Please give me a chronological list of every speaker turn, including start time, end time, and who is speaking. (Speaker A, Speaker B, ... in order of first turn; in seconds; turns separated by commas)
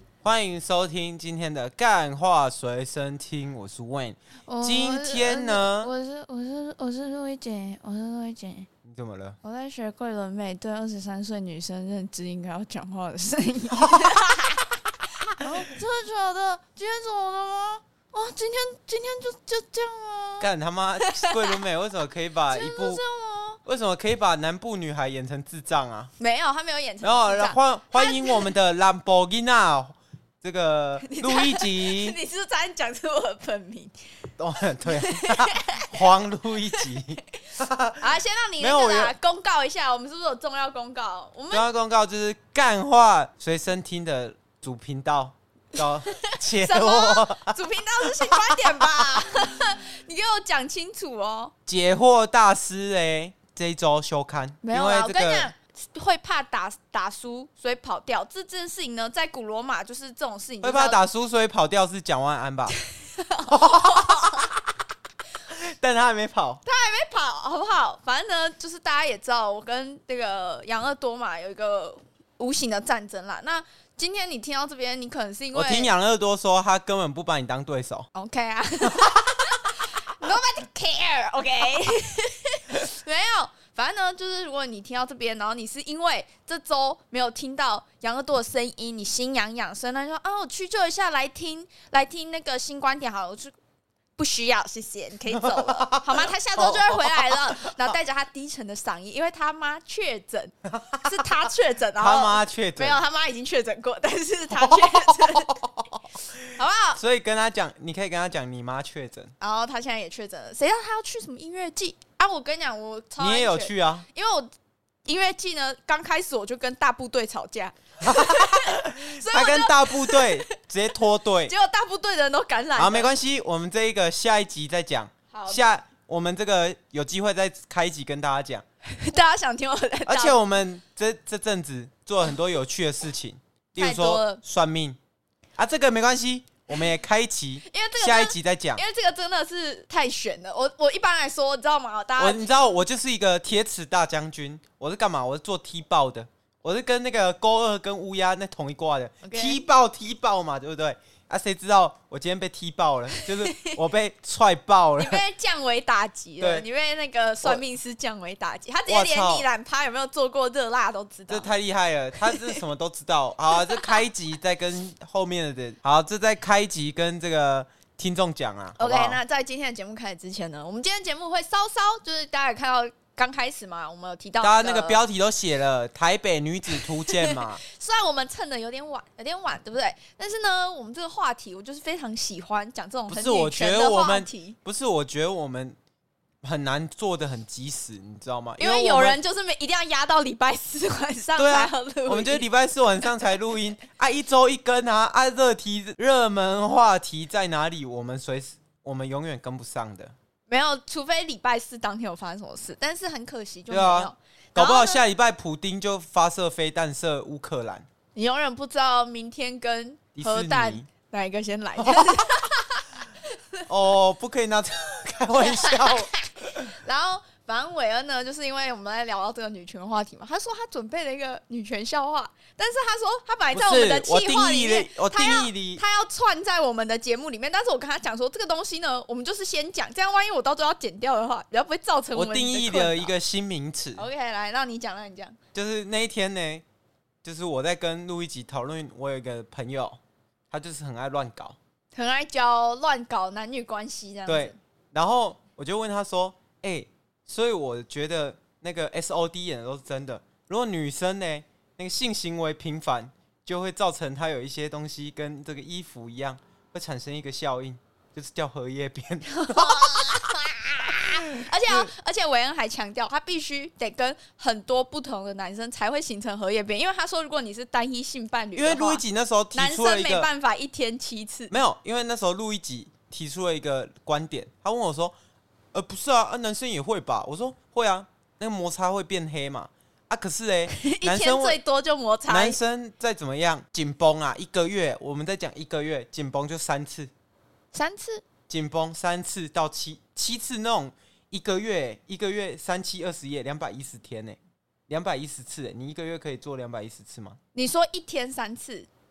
Speaker A: 0.2-5.9, Speaker B: 4.5-8.7, Speaker A: 8.8-9.4, Speaker B: 9.4-14.8, Speaker A: 13.8-14.1, Speaker B: 15.3-20.5, Speaker A: 20.4-23.0, Speaker B: 21.0-21.6, Speaker B: 22.5-23.6, Speaker A: 23.6-26.1, Speaker B: 26.2-28.5, Speaker A: 27.0-32.2, Speaker B: 31.1-33.9, Speaker A: 34.4-38.1, Speaker B: 34.9-36.0, Speaker B: 36.8-37.0, Speaker B: 38.0-41.6, Speaker A: 38.6-39.1, Speaker A: 41.5-47.6, Speaker B: 46.2-51.5, Speaker A: 48.1-48.8, Speaker A: 51.6-55.5, Speaker B: 54.6-61.0, Speaker A: 60.6-62.8, Speaker B: 62.9-64.5, Speaker A: 63.5-64.6, Speaker A: 65.5-66.6, Speaker B: 66.6-75.9, Speaker A: 75.5-78.1, Speaker B: 78.1-93.5, Speaker A: 78.8-79.4, Speaker B: 94.2-105.6, Speaker A: 95.4-97.7, Speaker A: 100.7-101.1, Speaker A: 102.0-103.0, Speaker A: 104.5-109.3, Speaker B: 106.5-107.0, Speaker B: 109.4-114.5, Speaker A: 113.2-114.1, Speaker B: 115.0-120.5, Speaker A: 118.0-121.5, Speaker B: 121.4-123.1, Speaker A: 122.8-128.6, Speaker B: 125.3-125.6, Speaker B: 128.8-130.4, Speaker A: 130.1-135.0, Speaker B: 133.8-134.4, Speaker A: 135.6-138.8, Speaker B: 137.6-142.5, Speaker A: 142.2-155.2, Speaker B: 149.2-149.6, Speaker B: 153.2-153.7, Speaker B: 155.0-161.5, Speaker A: 156.4-156.7, Speaker A: 158.9-159.4, Speaker A: 161.3-169.2, Speaker B: 162.2-162.6, Speaker B: 163.5-164.0, Speaker B: 168.8-175.0, Speaker A: 174.4-177.6, Speaker B: 176.7-184.6, Speaker A: 183.1-185.8, Speaker A: 186.4-189.2, Speaker B: 188.6-192.4, Speaker A: 191.4-200.1, Speaker B: 200.5-205.0, Speaker A: 203.7-207.9, Speaker B: 208.1-213.6, Speaker A: 210.1-210.9, Speaker A: 211.8-212.2, Speaker A: 213.7-216.6, Speaker B: 215.3-233.1, Speaker A: 223.5-225.8, Speaker A: 232.1-234.1, Speaker B: 233.9-235.4, Speaker A: 235.5-236.6, Speaker A: 237.2-240.0, Speaker A: 240.5-241.6, Speaker B: 241.9-244.6, Speaker A: 244.3-260.4, Speaker B: 259.3-271.5, Speaker A: 260.9-261.9, Speaker A: 268.6-270.3, Speaker A: 271.5-275.1, Speaker A: 275.7-281.6, Speaker B: 280.7-282.6, Speaker A: 282.3-287.1, Speaker B: 287.7-288.2, Speaker A: 288.5-294.4, Speaker A: 294.9-297.4, Speaker B: 297.5-298.9